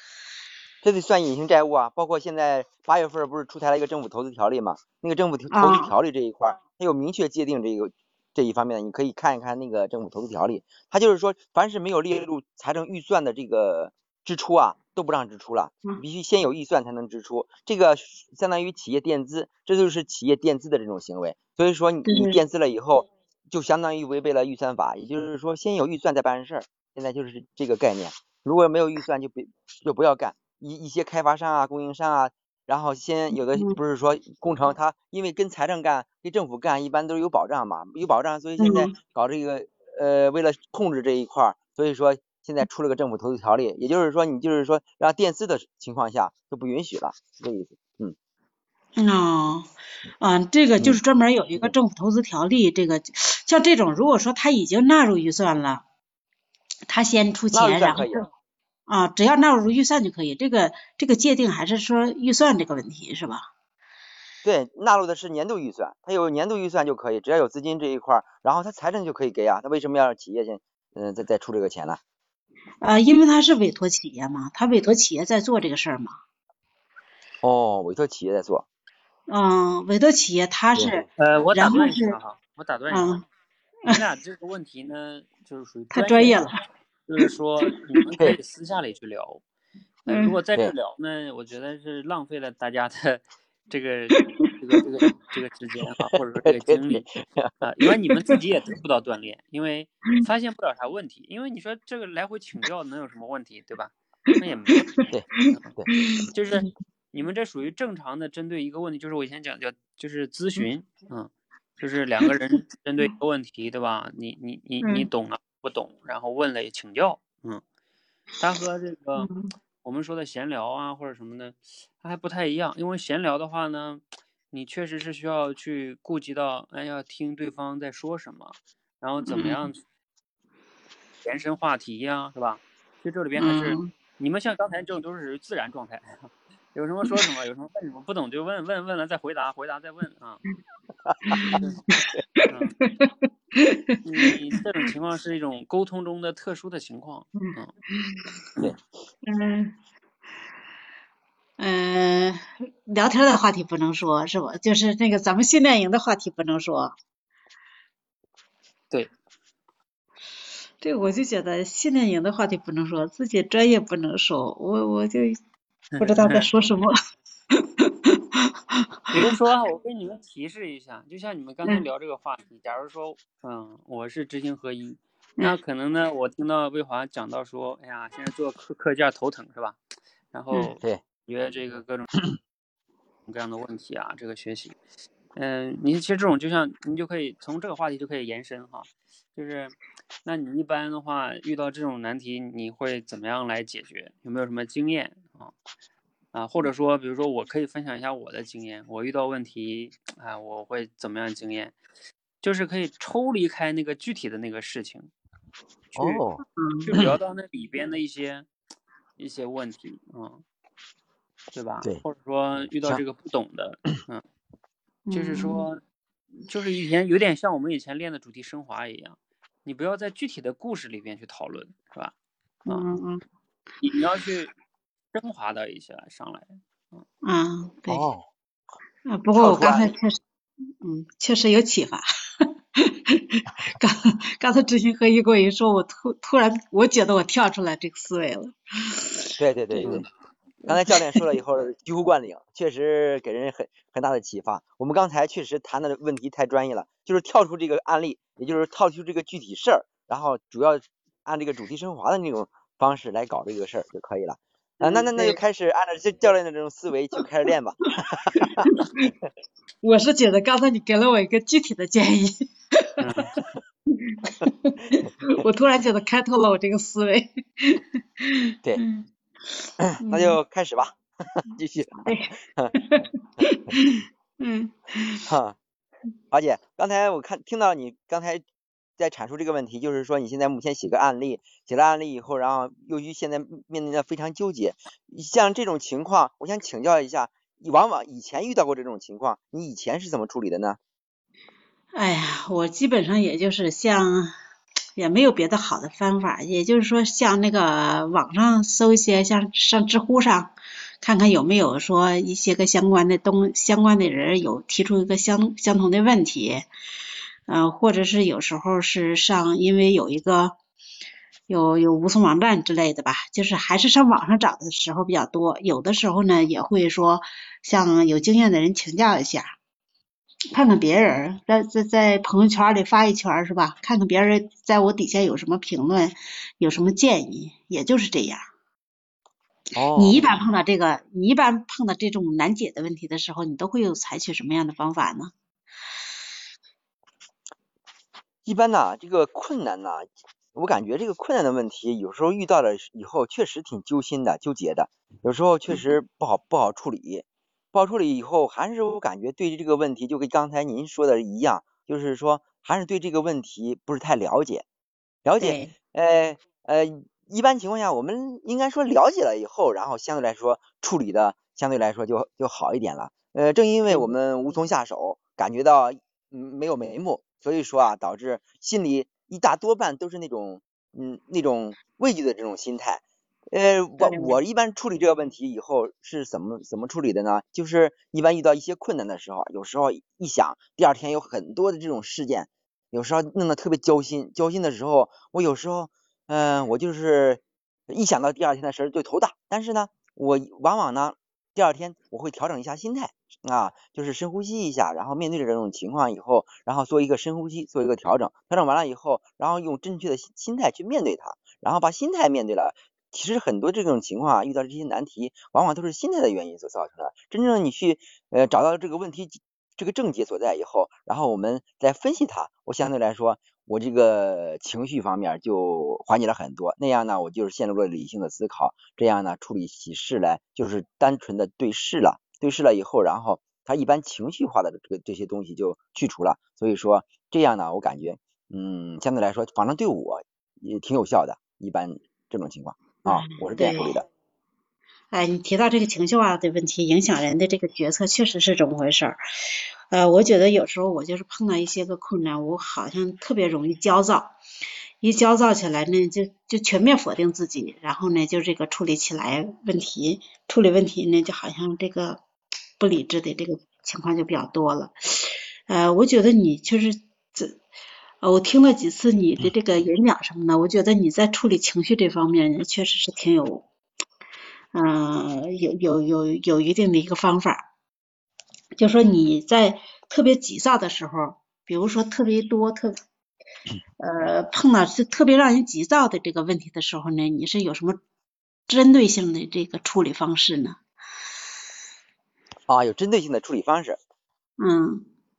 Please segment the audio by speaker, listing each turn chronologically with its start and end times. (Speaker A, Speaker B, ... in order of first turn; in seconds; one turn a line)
Speaker A: 0.8-48.1
Speaker B: 5.5-5.9
Speaker B: 22.1-22.4
Speaker B: 38.6-38.9
Speaker B: 49.0-55.9
Speaker B: 56.9-58.3
Speaker A: 57.5-58.3
Speaker B: 58.9-63.5
Speaker A: 64.4-72.0
Speaker B: 72.8-76.2
Speaker A: 77.4-78.7
Speaker B: 79.3-82.2
Speaker A: 80.8-81.1
Speaker C: 81.2-83.2
Speaker B: 82.9-83.2
Speaker C: 83.9-86.6
Speaker B: 85.9-86.5
Speaker C: 87.1-89.4
Speaker C: 90.0-97.0
Speaker B: 90.1-90.4
Speaker A: 96.5-97.5
Speaker C: 97.6-105.0
Speaker A: 105.1-105.9
Speaker B: 106.0-106.3
Speaker C: 106.3-117.6
Speaker B: 114.8-115.1
Speaker C: 118.4-119.3
Speaker B: 119.2-119.5
Speaker C: 119.8-129.8
Speaker B: 129.3-129.7
Speaker C: 131.2-140.4
Speaker B: 133.4-133.9
Speaker A: 141.1-141.4
Speaker B: 141.3-144.0
Speaker C: 141.5-141.8
Speaker C: 142.5-142.8
Speaker C: 144.0-147.7
Speaker B: 147.5-148.4
Speaker B: 149.2-149.8
Speaker B: 151.6-156.9
Speaker B: 160.8-165.4
Speaker C: 165.9-166.6
Speaker B: 166.0-167.0
Speaker B: 167.5-168.9
Speaker C: 169.1-179.8
Speaker C: 180.3-182.1
Speaker C: 183.3-184.8
Speaker C: 185.3-195.5
Speaker C: 196.3-201.8
Speaker C: 202.4-205.1
Speaker C: 205.9-206.2
Speaker A: 206.0-206.4
Speaker B: 206.6-206.9
Speaker C: 206.8-208.5
Speaker C: 209.2-210.4
Speaker C: 211.5-214.2
Speaker B: 215.1-215.7
Speaker C: 215.1-215.8
Speaker C: 216.5-222.1
Speaker B: 222.7-223.2
Speaker C: 223.8-224.5
Speaker C: 225.1-227.0
Speaker B: 227.2-228.1
Speaker A: 227.9-228.2
Speaker B: 229.1-230.2
Speaker A: 229.3-229.9
Speaker B: 230.8-232.1
Speaker B: 232.8-239.9
Speaker A: 239.4-240.1
Speaker A: 240.7-258.7
Speaker B: 240.9-241.2
Speaker B: 254.8-255.4
Speaker B: 258.7-259.1
Speaker B: 259.8-263.0
Speaker C: 263.0-263.4
Speaker B: 263.9-270.4
Speaker A: 269.8-272.8
Speaker B: 272.0-275.3
Speaker A: 275.3-275.6
Speaker A: 276.3-278.4
Speaker A: 279.0-290.8
Speaker B: 291.9-294.4
Speaker B: 295.0-306.7
Speaker B: 307.5-310.6
Speaker B: 311.5-319.6
Speaker B: 320.5-328.5
Speaker A: 329.8-330.4
Speaker B: 329.9-335.3
Speaker A: 338.4-354.6
Speaker A: 355.2-434.1
Speaker B: 355.4-355.7
Speaker B: 374.0-374.4
Speaker B: 433.1-433.9
Speaker B: 435.1-444.4
Speaker B: 445.0-452.2
Speaker B: 452.8-457.6
Speaker B: 458.2-463.7
Speaker B: 464.7-467.7
Speaker B: 468.8-473.0
Speaker B: 474.0-478.0
Speaker B: 478.7-480.8
Speaker A: 482.7-484.0
Speaker B: 484.6-485.1